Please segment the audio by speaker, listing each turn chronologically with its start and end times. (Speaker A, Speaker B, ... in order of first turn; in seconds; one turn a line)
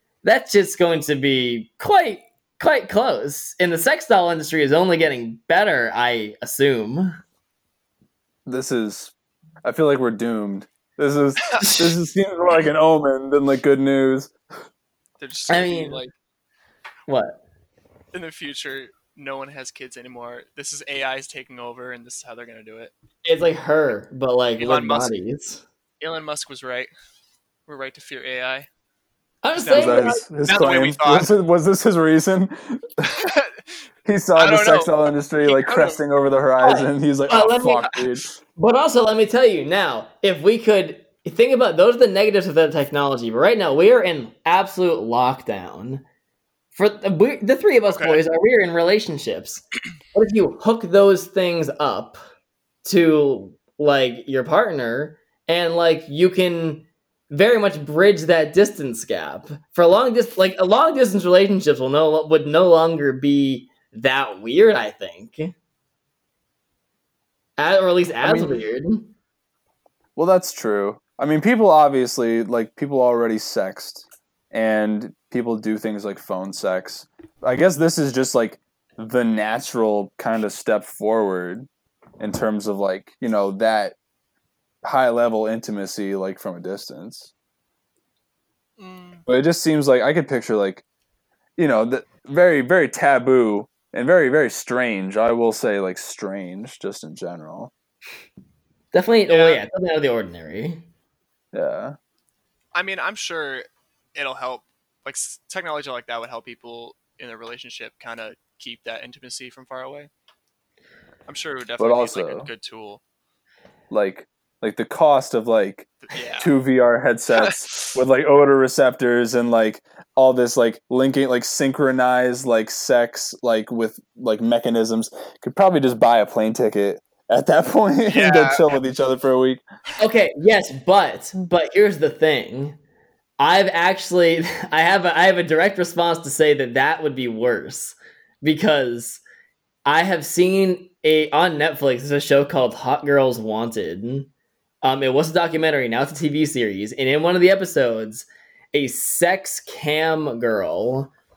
Speaker A: 0.2-7.2
Speaker B: 8.4-14.3
Speaker C: 15.2-16.1
Speaker A: 15.5-16.0
Speaker A: 17.1-17.4
Speaker C: 18.1-22.9
Speaker A: 23.2-25.6
Speaker C: 24.6-25.1
Speaker C: 26.0-26.9
Speaker C: 27.7-28.7
Speaker A: 29.4-30.2
Speaker C: 29.6-31.3
Speaker B: 29.7-33.1
Speaker C: 33.0-33.6
Speaker B: 34.0-38.4
Speaker C: 34.4-36.0
Speaker A: 36.6-37.9
Speaker A: 38.5-46.0
Speaker A: 46.7-52.2
Speaker C: 47.9-48.2
Speaker A: 52.8-65.5
Speaker A: 67.6-69.1
Speaker B: 68.2-68.6
Speaker B: 70.2-81.7
Speaker B: 82.2-84.0
Speaker B: 84.8-87.3
Speaker C: 88.8-89.2
Speaker B: 89.2-90.8
Speaker B: 91.6-97.7
Speaker A: 98.9-100.8
Speaker C: 99.3-99.6
Speaker B: 101.5-102.0
Speaker C: 102.7-110.1
Speaker C: 111.3-113.0
Speaker B: 111.8-112.5
Speaker B: 113.9-129.6
Speaker C: 116.1-116.5
Speaker C: 117.4-118.0
Speaker C: 128.1-128.8
Speaker A: 130.0-132.8
Speaker A: 133.4-139.2
Speaker A: 139.8-144.3
Speaker A: 144.8-151.1